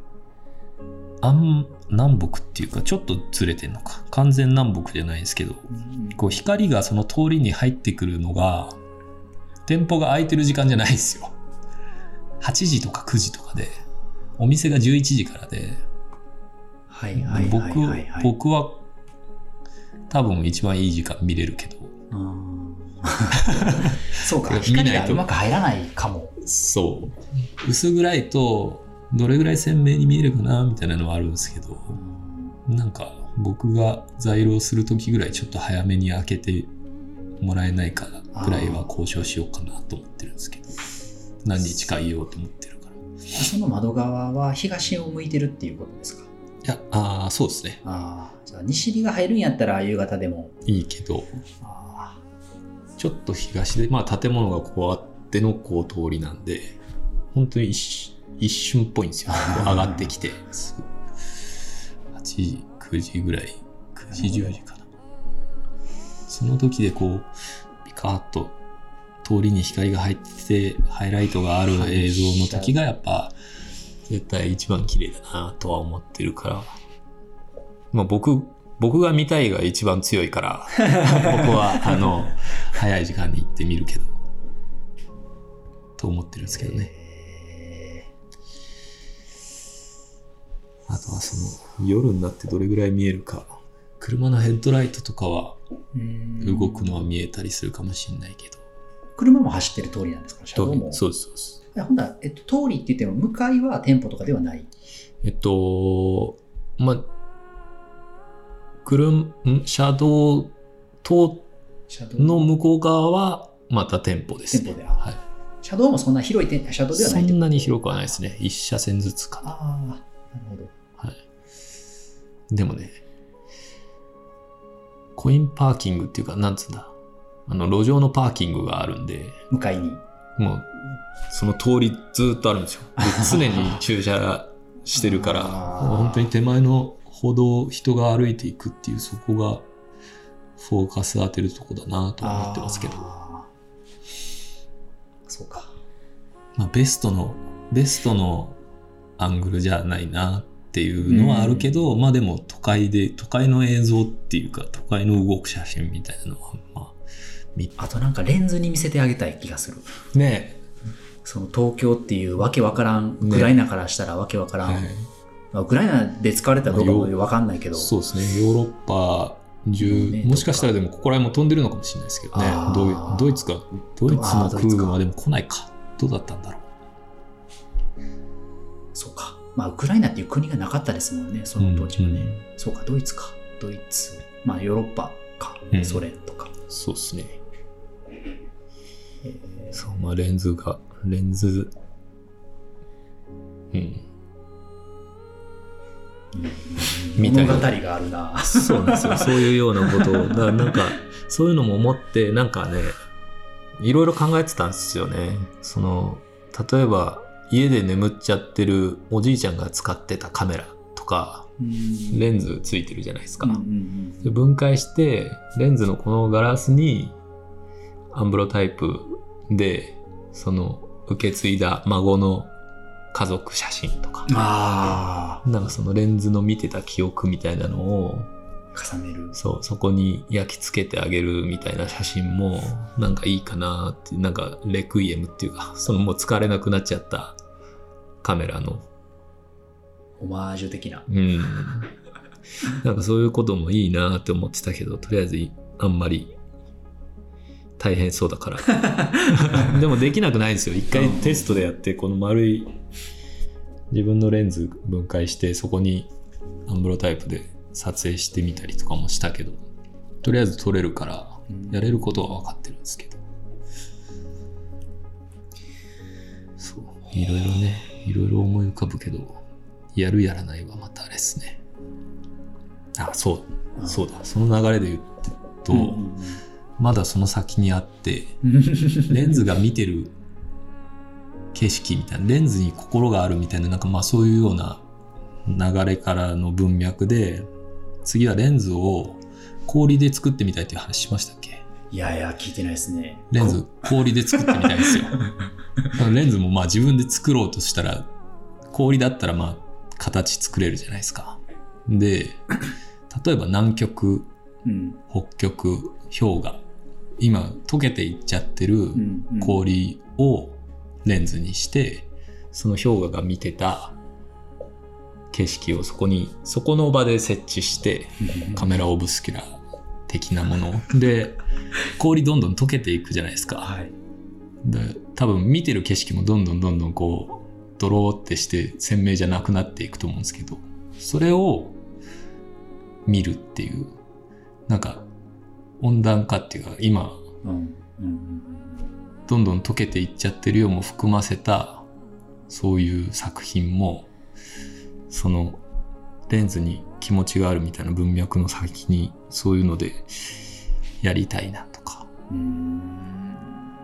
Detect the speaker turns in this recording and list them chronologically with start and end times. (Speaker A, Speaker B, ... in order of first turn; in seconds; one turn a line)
Speaker A: 1.2-8.8
Speaker B: 5.7-6.2
Speaker A: 9.7-11.4
Speaker A: 12.4-13.8
Speaker A: 14.4-15.8
Speaker B: 16.9-18.3
Speaker A: 17.1-18.8
Speaker A: 20.1-21.9
Speaker B: 22.1-26.4
Speaker A: 23.4-25.3
Speaker A: 26.4-32.0
Speaker B: 31.9-32.6
Speaker A: 32.7-36.7
Speaker A: 37.4-40.8
Speaker B: 38.3-38.9
Speaker A: 41.4-43.0
Speaker B: 43.3-46.3
Speaker A: 46.6-47.8
Speaker B: 47.8-50.5
Speaker A: 50.6-51.3
Speaker B: 51.6-52.2
Speaker A: 53.0-56.8
Speaker A: 57.3-60.9
Speaker B: 59.3-60.1
Speaker A: 62.1-64.9
Speaker B: 64.1-64.5
Speaker A: 66.3-67.3
Speaker A: 67.8-68.6
Speaker A: 69.2-73.3
Speaker B: 71.7-72.8
Speaker A: 74.1-76.7
Speaker A: 77.9-84.2
Speaker A: 86.0-86.9
Speaker B: 86.5-88.1
Speaker A: 90.9-95.6
Speaker B: 95.9-97.0
Speaker A: 96.4-98.6
Speaker B: 99.2-101.0
Speaker A: 100.6-101.6
Speaker B: 101.7-104.7
Speaker A: 105.2-107.1
Speaker A: 108.8-111.5
Speaker B: 111.9-112.5
Speaker A: 112.2-115.2
Speaker B: 114.5-115.0
Speaker B: 115.6-118.2
Speaker A: 116.9-119.5
Speaker B: 119.4-120.7
Speaker A: 122.5-123.0
Speaker A: 125.2-126.9
Speaker A: 127.5-129.5
Speaker B: 129.5-130.0
Speaker A: 130.4-139.7
Speaker B: 133.0-133.7
Speaker B: 135.0-136.3
Speaker A: 140.6-143.1
Speaker B: 142.2-143.5
Speaker B: 145.3-145.7
Speaker A: 146.6-148.6
Speaker A: 149.2-157.0
Speaker B: 151.1-151.7
Speaker B: 157.8-160.0
Speaker A: 160.1-160.6
Speaker B: 161.2-164.9
Speaker A: 163.2-163.5
Speaker A: 164.6-165.1
Speaker B: 165.5-167.9
Speaker A: 166.7-167.2
Speaker A: 167.8-176.7
Speaker B: 169.8-170.7
Speaker B: 172.3-173.5
Speaker B: 174.1-175.0
Speaker B: 178.9-186.5
Speaker A: 181.6-182.4
Speaker A: 185.7-186.1
Speaker A: 186.7-187.4
Speaker B: 189.2-190.0
Speaker A: 189.7-191.7
Speaker A: 193.7-194.1
Speaker B: 196.3-200.8
Speaker A: 197.2-197.7
Speaker A: 198.4-203.0
Speaker A: 203.8-211.5
Speaker B: 211.6-212.2
Speaker A: 212.1-213.6
Speaker B: 213.4-214.3
Speaker A: 214.2-217.2
Speaker A: 218.1-222.5
Speaker A: 223.1-224.3
Speaker B: 224.3-225.4
Speaker A: 225.4-228.3
Speaker B: 228.7-229.4
Speaker A: 229.3-237.4
Speaker A: 238.2-238.9
Speaker B: 240.2-241.1
Speaker A: 241.1-241.9
Speaker A: 242.7-246.3
Speaker A: 247.8-252.8
Speaker B: 248.8-249.7
Speaker B: 250.9-251.7
Speaker A: 253.9-256.1
Speaker A: 256.7-259.6
Speaker A: 260.2-263.2
Speaker B: 261.5-261.8
Speaker A: 266.6-269.4
Speaker A: 269.9-271.6
Speaker A: 273.0-276.0
Speaker B: 275.7-276.4
Speaker A: 276.8-278.4
Speaker B: 278.4-279.4
Speaker A: 279.1-280.1
Speaker A: 281.5-284.9
Speaker A: 285.4-287.5
Speaker A: 288.1-291.7
Speaker B: 291.9-293.7
Speaker A: 293.3-295.2
Speaker B: 294.4-295.4
Speaker A: 295.9-298.1
Speaker A: 298.7-302.5
Speaker A: 303.1-304.3
Speaker B: 304.6-305.0
Speaker A: 305.1-306.6
Speaker A: 307.2-314.0
Speaker B: 308.9-309.6
Speaker A: 315.3-321.4
Speaker B: 318.2-318.7
Speaker A: 322.0-323.7
Speaker B: 323.6-323.9
Speaker A: 324.6-331.8
Speaker A: 333.1-334.0
Speaker A: 334.7-335.1
Speaker A: 335.8-337.2
Speaker B: 337.4-338.8
Speaker A: 339.3-341.9
Speaker A: 342.5-344.1
Speaker A: 345.1-345.6
Speaker A: 346.3-350.5
Speaker A: 351.0-352.1
Speaker B: 352.3-353.7